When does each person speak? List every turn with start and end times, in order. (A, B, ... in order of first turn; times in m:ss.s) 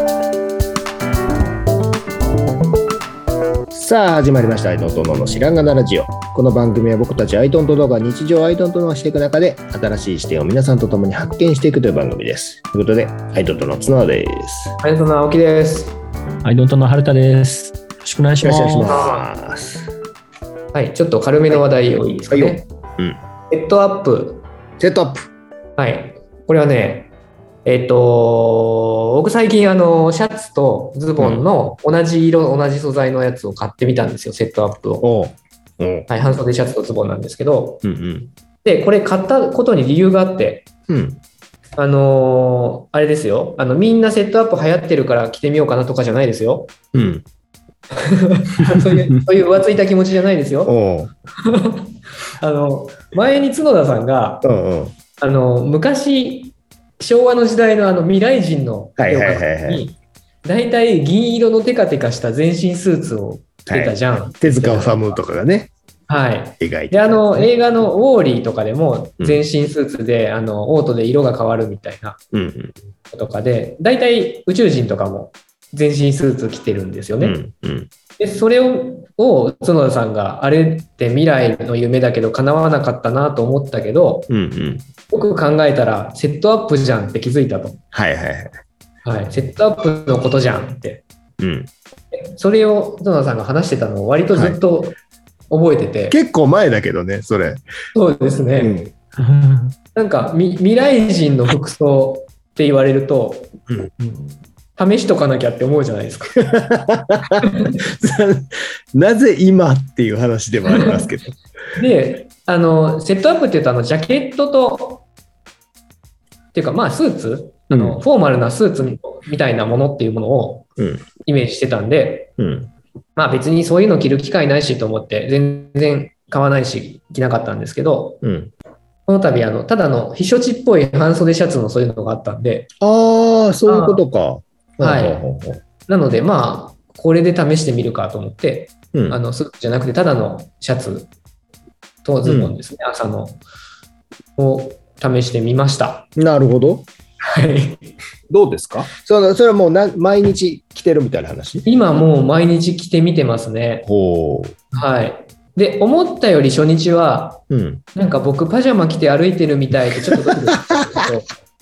0:03.7-0:14.8 A
0:14.8-0:16.0 B
0:16.4-0:19.0 C
0:18.4-0:19.9 A
0:18.9-0:19.2 B
0:20.7-0:22.6 B
0:22.3-0:23.2 A
0:23.5-0:24.4 B
0:24.8-0:25.3 A
0:25.8-0:27.1 B
0:27.6-0:35.0 B
0:31.2-0:31.4 A
0:35.0-0:36.1 A
0:36.1-0:37.8 B
0:37.8-0:38.3 A
0:38.6-0:40.7 B
0:40.9-0:41.2 A
0:41.8-0:46.7 B
0:46.9-0:47.2 A
0:48.0-0:50.7 B
0:48.6-0:48.9 A
0:50.7-0:51.1 A
0:51.4-0:54.4 B
0:54.4-0:54.9 A
0:55.2-1:05.2 B
0:59.0-0:59.9 A
1:03.7-1:05.7 A
1:06.1-1:12.2 B
1:06.6-1:07.5 A
1:09.2-1:09.4 A
1:12.3-1:12.8 A
1:13.1-1:17.4 B
1:17.2-1:17.9 A
1:18.2-1:24.3 B
1:24.3-1:24.9 A
1:25.1-1:27.8 B
1:27.9-1:28.5 A
1:29.0-1:31.0 B
1:31.4-1:31.7 A
1:32.1-1:35.0 B
1:34.3-1:34.6 A
1:35.5-1:36.2 B
1:36.1-1:37.6 A
1:38.0-1:38.8 B
1:38.6-1:38.9 A
1:39.2-1:39.7 C
1:40.0-1:43.5 B
1:44.0-1:44.3 C
1:44.8-1:46.3 B
1:46.4-1:47.4 A
1:47.4-1:47.7 B
1:47.9-1:51.4 A
1:50.7-1:51.0 B
1:51.8-1:55.0 B
1:56.5-2:00.7 B
1:57.7-1:58.0 A
2:00.8-2:01.1 A
2:01.2-2:02.3 B
2:02.4-2:02.7 A
2:03.2-2:08.2 B
2:08.2-2:08.5 A
2:09.1-2:12.7 B
2:12.8-2:15.6 A
2:13.7-2:14.0 B
2:14.8-2:15.3 B
2:15.9-2:21.1 B
2:18.9-2:19.2 A
2:22.0-2:23.4 B
2:22.2-2:22.6 A
2:24.4-2:26.1 B
2:26.2-2:26.9 A
2:27.2-2:27.9 B
2:28.3-2:31.7 A
2:31.6-2:33.8 B
2:33.9-2:34.6 A
2:34.7-2:37.4 B
2:37.5-2:37.8 A
2:38.0-2:41.3 B